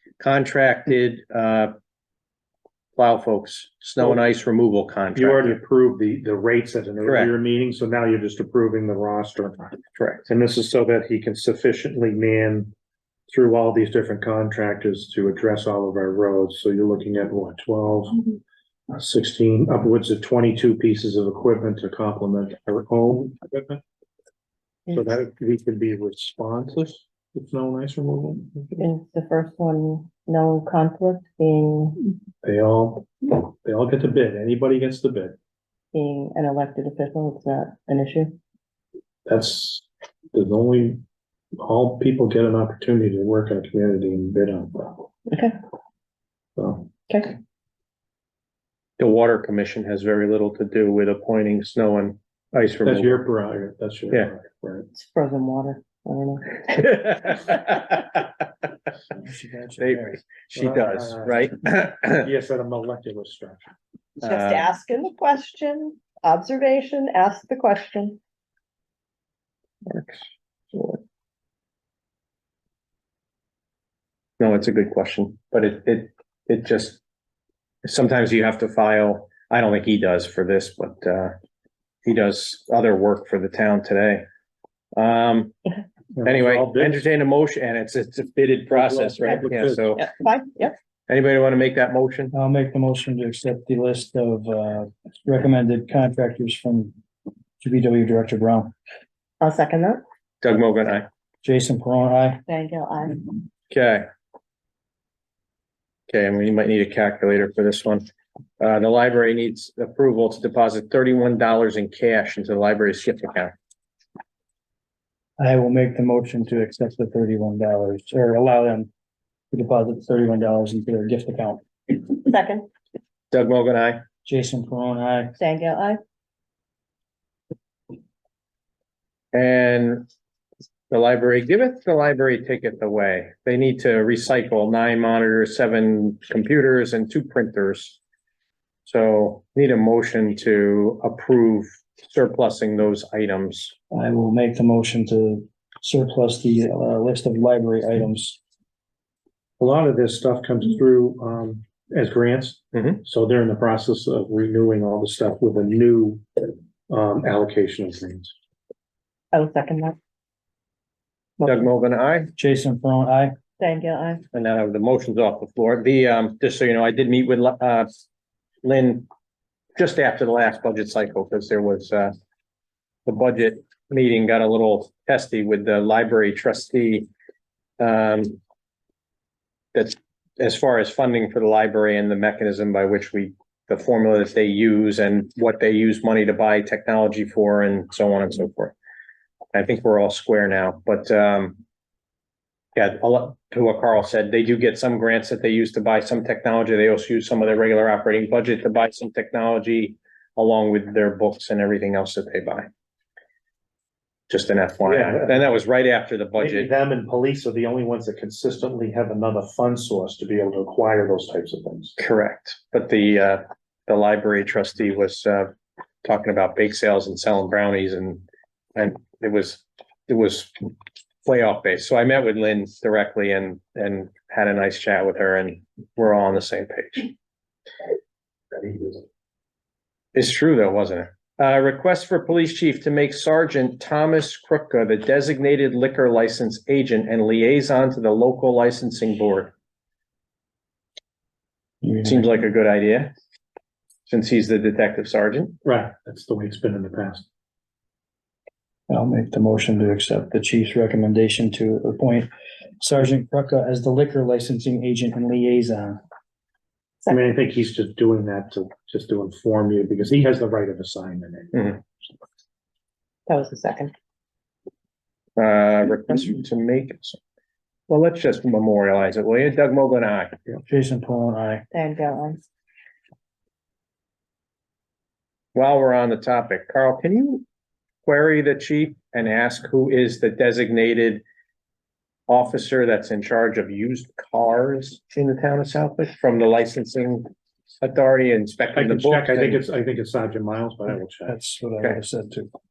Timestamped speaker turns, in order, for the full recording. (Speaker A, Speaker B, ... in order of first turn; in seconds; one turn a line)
Speaker A: 0.2-1.7
Speaker A: 3.0-5.6
Speaker B: 5.2-12.7
Speaker A: 7.0-7.3
Speaker A: 10.0-10.3
Speaker B: 13.3-18.4
Speaker B: 18.9-23.8
Speaker B: 24.9-28.8
Speaker C: 28.8-32.0
Speaker B: 32.4-35.4
Speaker C: 35.9-38.4
Speaker B: 39.3-41.0
Speaker B: 41.6-45.1
Speaker C: 45.3-45.6
Speaker B: 46.6-46.9
Speaker C: 47.1-47.4
Speaker A: 49.0-53.2
Speaker B: 52.9-54.9
Speaker C: 55.0-57.4
Speaker A: 56.8-58.2
Speaker D: 59.1-60.2
Speaker A: 59.8-62.3
Speaker B: 60.5-61.5
Speaker B: 62.0-63.7
Speaker C: 64.2-68.2
Speaker A: 64.2-64.7
Speaker A: 69.9-71.0
Speaker A: 74.4-77.0
Speaker A: 77.8-81.3
Speaker A: 82.0-84.2
Speaker A: 85.0-85.5
Speaker B: 86.1-87.1
Speaker A: 86.2-90.1
Speaker B: 88.7-89.9
Speaker C: 90.0-90.8
Speaker A: 91.1-92.3
Speaker D: 92.3-96.9
Speaker D: 97.6-98.7
Speaker C: 99.4-100.0
Speaker A: 100.4-101.1
Speaker D: 101.4-102.4
Speaker C: 102.5-103.3
Speaker A: 103.7-104.1
Speaker A: 106.1-108.1
Speaker A: 108.6-113.5
Speaker D: 115.4-118.9
Speaker D: 119.5-121.6
Speaker C: 122.2-122.7
Speaker A: 123.3-124.0
Speaker D: 124.2-125.4
Speaker C: 125.4-126.0
Speaker A: 129.3-130.1
Speaker A: 130.9-138.0
Speaker A: 138.9-143.8
Speaker D: 143.9-148.4
Speaker B: 149.6-158.3
Speaker A: 152.7-153.0
Speaker C: 159.3-160.0
Speaker A: 161.4-162.3
Speaker D: 162.4-163.4
Speaker C: 163.6-164.2
Speaker A: 164.3-167.9
Speaker A: 168.6-169.1
Speaker A: 169.8-172.1
Speaker A: 173.1-177.1
Speaker A: 177.8-178.4
Speaker A: 179.7-188.7
Speaker A: 189.5-191.6
Speaker A: 192.8-202.7
Speaker A: 204.3-206.7
Speaker B: 204.8-205.5
Speaker B: 206.4-212.0
Speaker A: 212.0-215.5
Speaker A: 216.0-218.2
Speaker A: 218.8-220.5
Speaker A: 221.2-227.1
Speaker A: 230.1-239.5
Speaker D: 241.8-242.3
Speaker A: 242.0-243.1
Speaker A: 244.1-245.6
Speaker B: 245.6-247.2
Speaker D: 248.9-252.3
Speaker D: 252.8-256.0
Speaker B: 257.1-261.8
Speaker C: 263.3-263.9
Speaker A: 265.4-267.2
Speaker A: 267.9-270.4
Speaker D: 270.7-271.6
Speaker C: 271.7-272.4
Speaker A: 275.6-277.4
Speaker A: 278.1-281.2
Speaker A: 282.3-289.6
Speaker B: 288.8-291.4
Speaker D: 291.3-292.5